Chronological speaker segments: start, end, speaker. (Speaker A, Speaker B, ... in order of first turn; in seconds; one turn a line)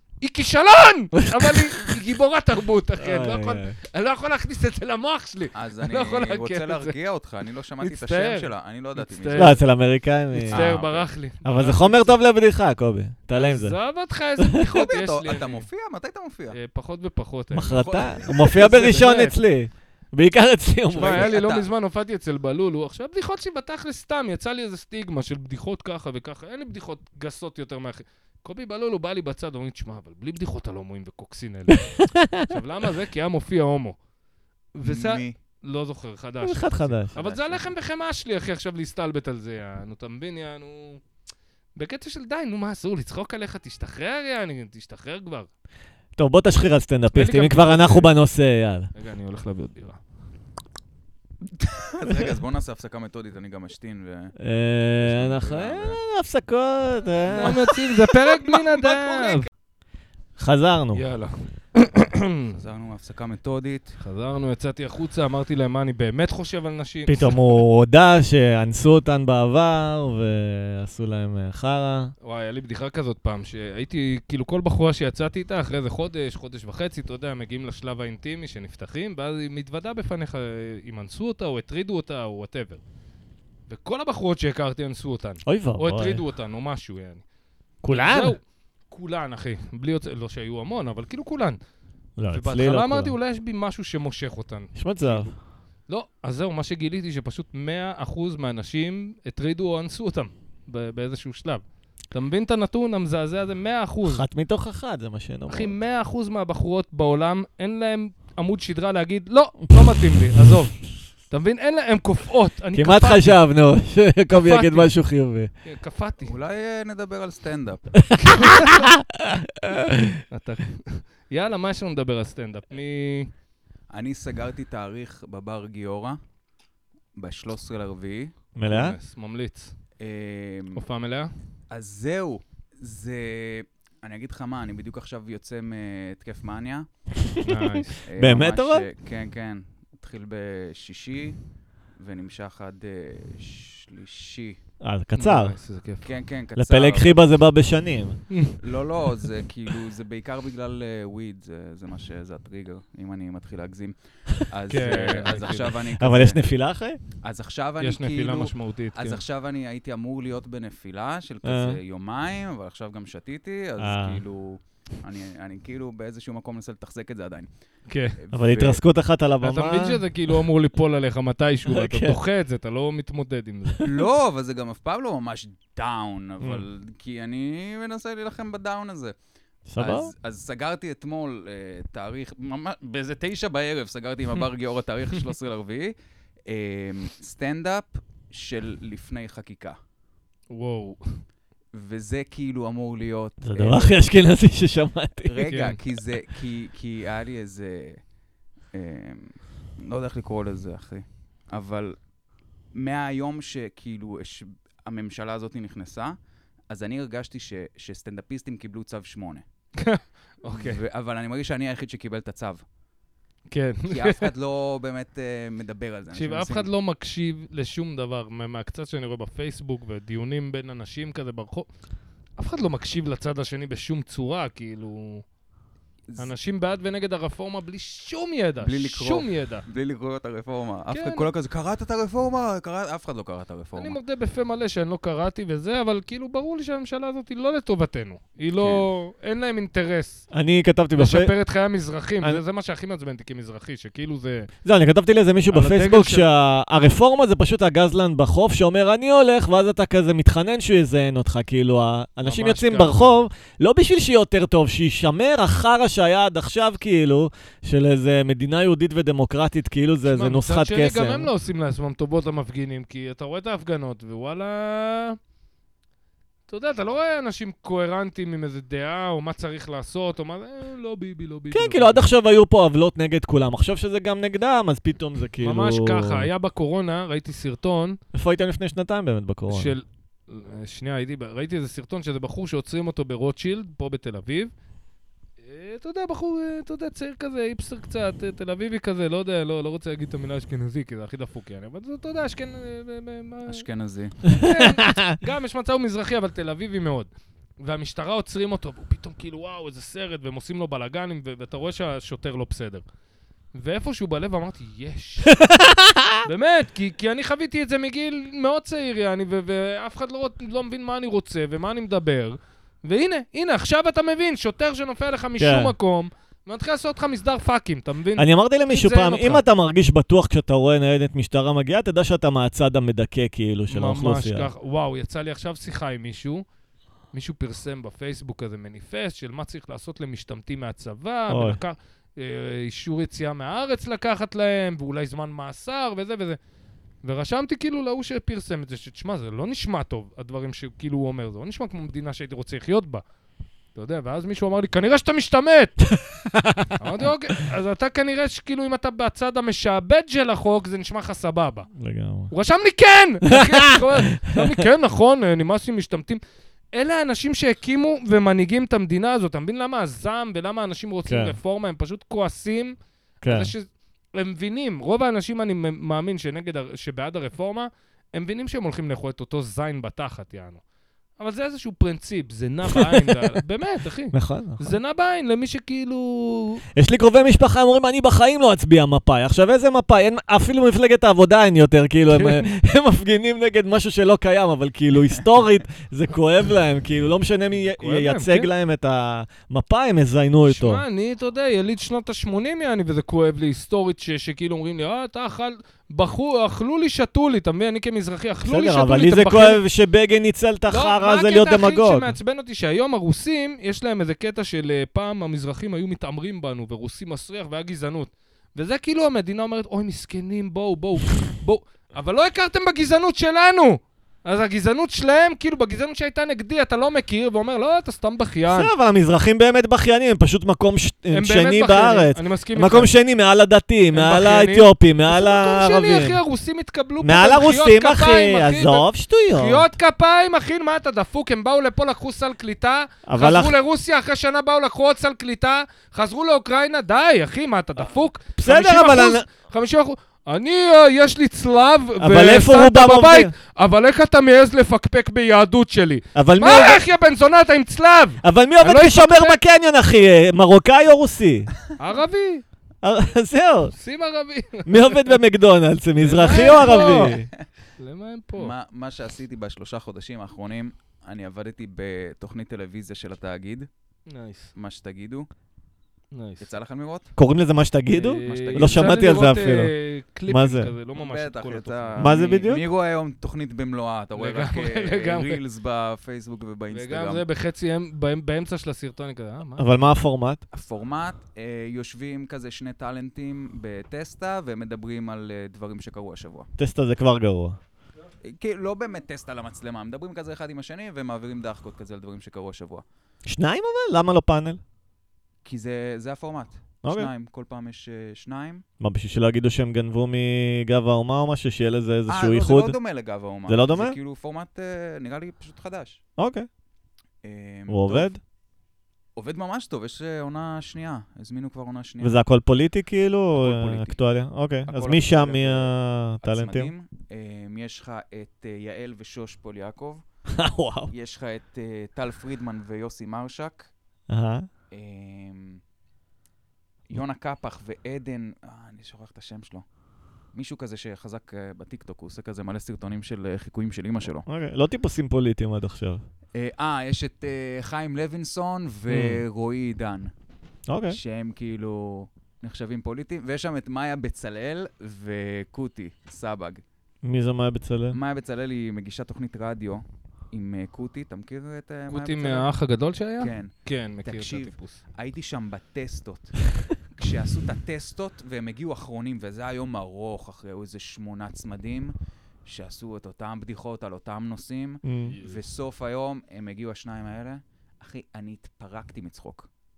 Speaker A: 0.2-7.0
Speaker B: 1.2-1.9
Speaker B: 3.0-3.8
Speaker C: 5.5-9.6
Speaker A: 7.8-9.6
Speaker B: 9.3-10.7
Speaker A: 10.4-12.1
Speaker C: 10.5-11.1
Speaker B: 11.4-13.8
Speaker A: 13.3-15.7
Speaker B: 14.4-14.7
Speaker C: 14.6-16.6
Speaker A: 16.5-19.4
Speaker B: 17.5-21.3
Speaker C: 17.7-18.6
Speaker C: 20.9-21.7
Speaker A: 20.9-34.0
Speaker B: 31.9-32.5
Speaker A: 34.7-41.0
Speaker C: 34.8-35.4
Speaker B: 36.4-37.2
Speaker C: 37.2-37.6
Speaker A: 41.8-45.5
Speaker B: 46.2-48.9
Speaker A: 47.1-48.1
Speaker A: 49.0-50.0
Speaker C: 51.4-54.4
Speaker B: 54.4-57.7
Speaker C: 55.0-56.0
Speaker A: 57.3-59.5
Speaker C: 57.3-57.8
Speaker C: 58.3-59.5
Speaker B: 60.4-61.0
Speaker A: 60.9-62.5
Speaker C: 62.5-64.0
Speaker A: 64.0-67.6
Speaker B: 67.1-72.1
Speaker A: 72.2-82.8
Speaker A: 83.7-87.2
Speaker B: 85.5-86.2
Speaker B: 87.8-88.4
Speaker A: 87.9-91.6
Speaker B: 92.2-93.2
Speaker A: 92.3-95.3
Speaker B: 94.8-95.3
Speaker A: 95.9-104.2
Speaker B: 104.0-105.8
Speaker A: 105.5-113.4
Speaker B: 112.7-115.5
Speaker A: 114.3-114.9
Speaker A: 115.7-116.3
Speaker C: 116.2-118.6
Speaker B: 118.0-120.2
Speaker A: 118.2-118.9
Speaker A: 120.3-123.3
Speaker C: 123.9-126.2
Speaker C: 127.2-128.3
Speaker B: 128.6-129.0
Speaker A: 128.7-129.7
Speaker C: 130.0-130.8
Speaker A: 130.8-131.3
Speaker C: 131.7-136.9
Speaker B: 137.2-138.9
Speaker A: 137.4-138.0
Speaker C: 138.1-141.4
Speaker C: 142.0-144.6
Speaker B: 144.8-145.6
Speaker A: 145.2-146.1
Speaker C: 146.0-147.2
Speaker B: 146.6-148.2
Speaker A: 148.3-148.6
Speaker C: 148.6-156.5
Speaker A: 154.7-155.7
Speaker B: 155.9-157.0
Speaker C: 157.2-167.5
Speaker A: 157.8-159.2
Speaker B: 161.4-161.8
Speaker B: 163.8-164.2
Speaker A: 167.9-168.2
Speaker C: 168.2-168.8
Speaker B: 168.3-170.1
Speaker A: 169.4-173.8
Speaker B: 171.7-172.2
Speaker C: 173.8-179.2
Speaker B: 179.7-180.1
Speaker C: 179.8-185.9
Speaker C: 186.5-189.8
Speaker A: 190.5-191.2
Speaker C: 191.7-194.0
Speaker B: 193.4-195.8
Speaker C: 195.2-198.0
Speaker C: 198.7-202.0
Speaker C: 202.7-206.2
Speaker C: 206.7-209.4
Speaker A: 209.8-210.8
Speaker C: 210.5-212.6
Speaker A: 213.5-214.3
Speaker C: 213.9-216.7
Speaker A: 216.1-221.7
Speaker A: 222.4-225.2
Speaker A: 226.2-229.7
Speaker C: 228.6-234.0
Speaker A: 230.9-231.3
Speaker A: 233.8-240.2
Speaker C: 238.6-238.8
Speaker B: 240.3-241.3
Speaker A: 241.0-244.5
Speaker B: 244.7-261.3
Speaker A: 245.5-246.3
Speaker A: 252.2-253.0
Speaker A: 260.1-265.2
Speaker A: 266.5-272.1
Speaker B: 271.5-276.3
Speaker A: 275.4-278.0
Speaker B: 278.1-279.8
Speaker A: 279.5-284.5
Speaker A: 285.4-293.6
Speaker C: 293.5-294.4
Speaker A: 294.3-297.1
Speaker B: 294.4-295.2
Speaker A: 297.6-302.8
Speaker A: 303.5-305.4
Speaker B: 305.3-306.3
Speaker A: 306.2-319.4
Speaker B: 315.4-315.7
Speaker B: 318.2-324.5
Speaker A: 323.7-326.4
Speaker A: 327.1-336.4
Speaker B: 331.3-331.6
Speaker A: 337.0-343.0
Speaker A: 343.8-345.9
Speaker B: 345.9-346.7
Speaker A: 346.8-351.7
Speaker B: 351.8-352.3
Speaker A: 352.3-356.2
Speaker B: 353.3-354.5
Speaker A: 356.7-370.6
Speaker B: 361.1-361.4
Speaker B: 363.2-363.5
Speaker A: 371.2-376.6
Speaker B: 374.1-374.8
Speaker B: 376.8-390.8
Speaker A: 382.1-382.4
Speaker A: 387.8-388.5
Speaker A: 390.4-399.6
Speaker B: 398.4-402.1
Speaker A: 400.7-418.7
Speaker B: 418.5-426.2
Speaker A: 421.1-422.9
Speaker A: 423.9-449.4
Speaker B: 427.0-429.7
Speaker B: 433.1-433.6
Speaker B: 438.4-439.3
Speaker B: 442.0-443.3
Speaker B: 446.1-446.8
Speaker B: 448.2-451.5
Speaker A: 451.8-452.4
Speaker B: 452.8-453.7
Speaker A: 453.7-455.1
Speaker B: 454.7-457.3
Speaker A: 456.0-457.2
Speaker C: 456.5-457.5
Speaker A: 457.8-458.5
Speaker C: 458.4-463.7
Speaker A: 464.1-464.5
Speaker C: 464.6-465.3
Speaker A: 466.1-466.5
Speaker C: 466.4-467.1
Speaker B: 467.2-469.7
Speaker A: 467.9-472.6
Speaker C: 468.3-469.3
Speaker B: 470.3-470.7
Speaker C: 470.9-477.2
Speaker B: 472.0-472.6
Speaker A: 474.2-475.4
Speaker A: 476.7-479.7
Speaker B: 479.6-480.4
Speaker C: 480.5-486.5
Speaker B: 486.6-487.6
Speaker C: 488.2-492.8
Speaker B: 493.3-494.6
Speaker C: 495.4-498.6
Speaker B: 496.8-497.1
Speaker B: 498.8-502.8
Speaker C: 502.1-506.0
Speaker B: 503.5-504.0
Speaker B: 506.2-506.5
Speaker C: 507.2-508.1
Speaker B: 507.7-508.2
Speaker C: 509.2-512.2
Speaker B: 512.0-516.7
Speaker C: 513.3-514.0
Speaker C: 514.7-520.0
Speaker B: 520.3-520.9
Speaker C: 520.9-523.7
Speaker B: 524.1-524.5
Speaker C: 524.7-525.6
Speaker C: 526.9-529.6
Speaker C: 530.3-534.3
Speaker B: 534.3-536.0
Speaker C: 536.4-540.1
Speaker B: 538.9-539.2
Speaker B: 540.7-541.0
Speaker C: 540.9-546.6
Speaker B: 547.0-548.0
Speaker C: 547.9-552.5
Speaker A: 551.9-554.8
Speaker C: 553.2-553.5
Speaker C: 554.0-556.3
Speaker C: 557.0-561.9
Speaker C: 562.5-569.5
Speaker B: 564.9-565.1